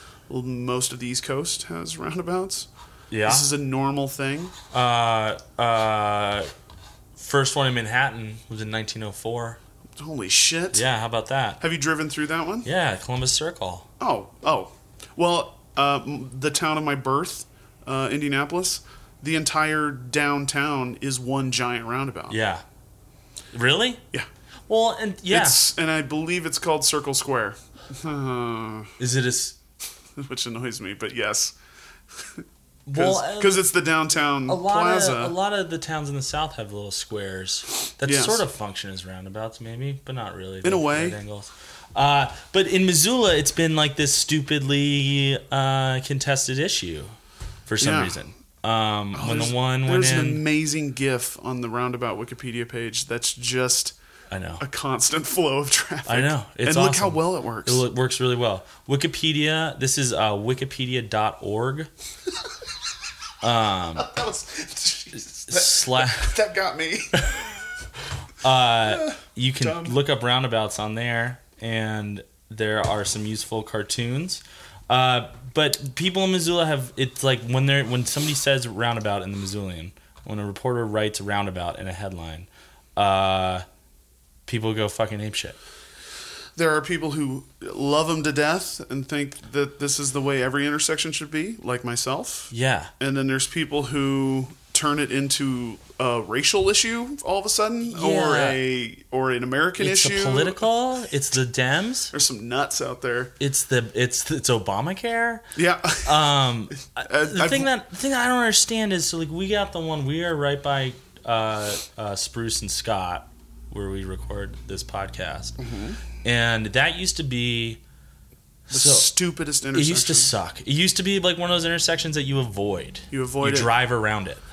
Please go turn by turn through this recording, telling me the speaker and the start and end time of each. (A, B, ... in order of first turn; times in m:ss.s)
0:00.3-0:02.7 A
0:03.1-0:03.5 B
0:03.2-0:04.5 A
0:04.7-0:06.5 B
0:07.2-0:09.6 B
0:10.0-0:10.8 A
0:10.7-0:11.6 B
0:11.6-0:12.7 A
0:12.6-0:13.9 B
0:14.0-0:22.4 A
0:22.3-0:22.6 B
0:23.5-0:24.0 B
0:24.7-0:25.6 B
0:25.3-0:28.9 A
0:29.0-0:29.6 B
0:30.2-0:31.6 A
0:32.2-0:35.3 A
0:32.8-0:33.7 B
0:34.5-0:47.1 B
0:38.0-0:38.4 A
0:40.6-0:41.2 A
0:47.7-0:50.4 B
0:47.8-0:48.2 A
0:49.1-0:53.9 A
0:54.3-0:54.6 B
0:54.6-0:57.8 A
0:56.0-1:01.9 B
1:03.4-1:04.1 B
1:04.0-1:07.5 A
1:05.1-1:06.3 B
1:07.1-1:07.4 B
1:08.4-1:23.6 B
1:08.8-1:09.9 A
1:24.5-1:25.6 B
1:26.6-1:40.6 A
1:32.5-1:32.9 B
1:37.9-1:38.6 B
1:39.8-1:42.1 B
1:42.1-1:43.3 A
1:43.4-1:45.4 B
1:45.5-1:46.3 A
1:46.0-1:55.6 B
1:47.0-1:47.7 A
1:55.6-1:56.0 A
1:56.2-1:57.8 B
1:58.7-1:59.1 B
1:58.7-2:00.3 A
1:59.7-2:04.4 B
2:03.1-2:03.7 A